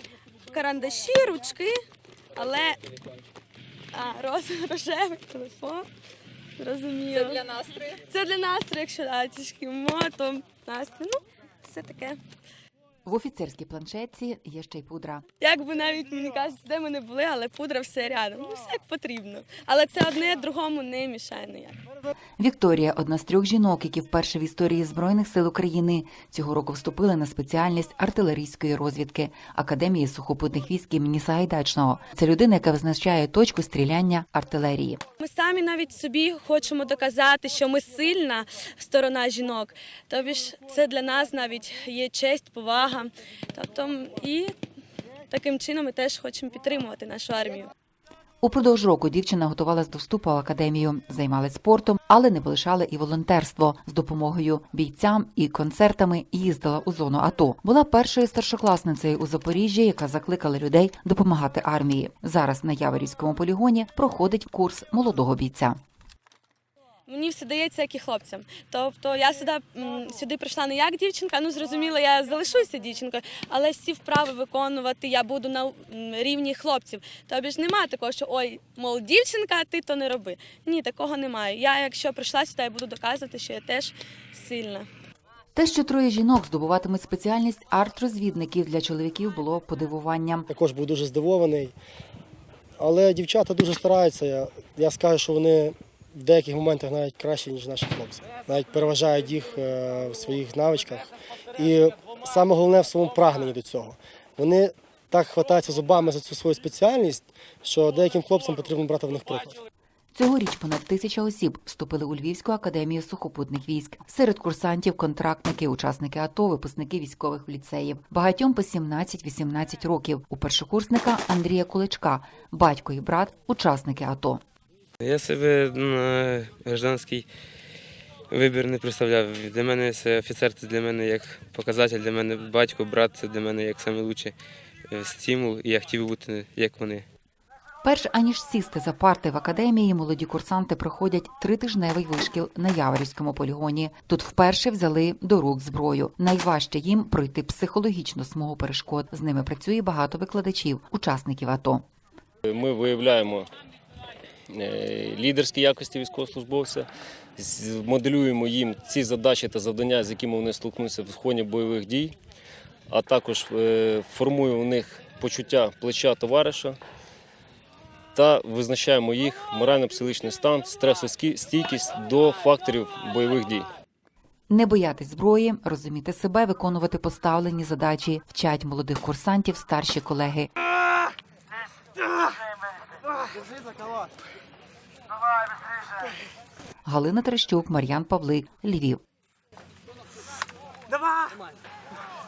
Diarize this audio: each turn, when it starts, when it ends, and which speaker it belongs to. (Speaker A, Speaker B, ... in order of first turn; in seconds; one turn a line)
Speaker A: 0.5-1.8
Speaker A: 2.4-2.8
Speaker A: 3.9-5.9
Speaker A: 6.6-12.2
Speaker B: 13.0-15.2
Speaker A: 15.4-21.8
Speaker B: 22.4-35.0
Speaker A: 35.2-44.5
Speaker A: 45.3-47.7
Speaker B: 48.4-65.8
Speaker A: 67.1-84.9
Speaker B: 85.5-90.5
Speaker C: 90.5-91.7
Speaker C: 92.8-109.6
Speaker B: 110.1-124.4
Speaker D: 125.0-127.3
Speaker D: 128.3-134.3
Speaker D: 134.9-137.0
Speaker B: 137.8-151.8
Speaker E: 152.4-153.5
Speaker E: 154.5-162.1
Speaker E: 162.9-166.8
Speaker E: 168.1-173.7
Speaker B: 174.5-180.5
Speaker B: 186.8-189.0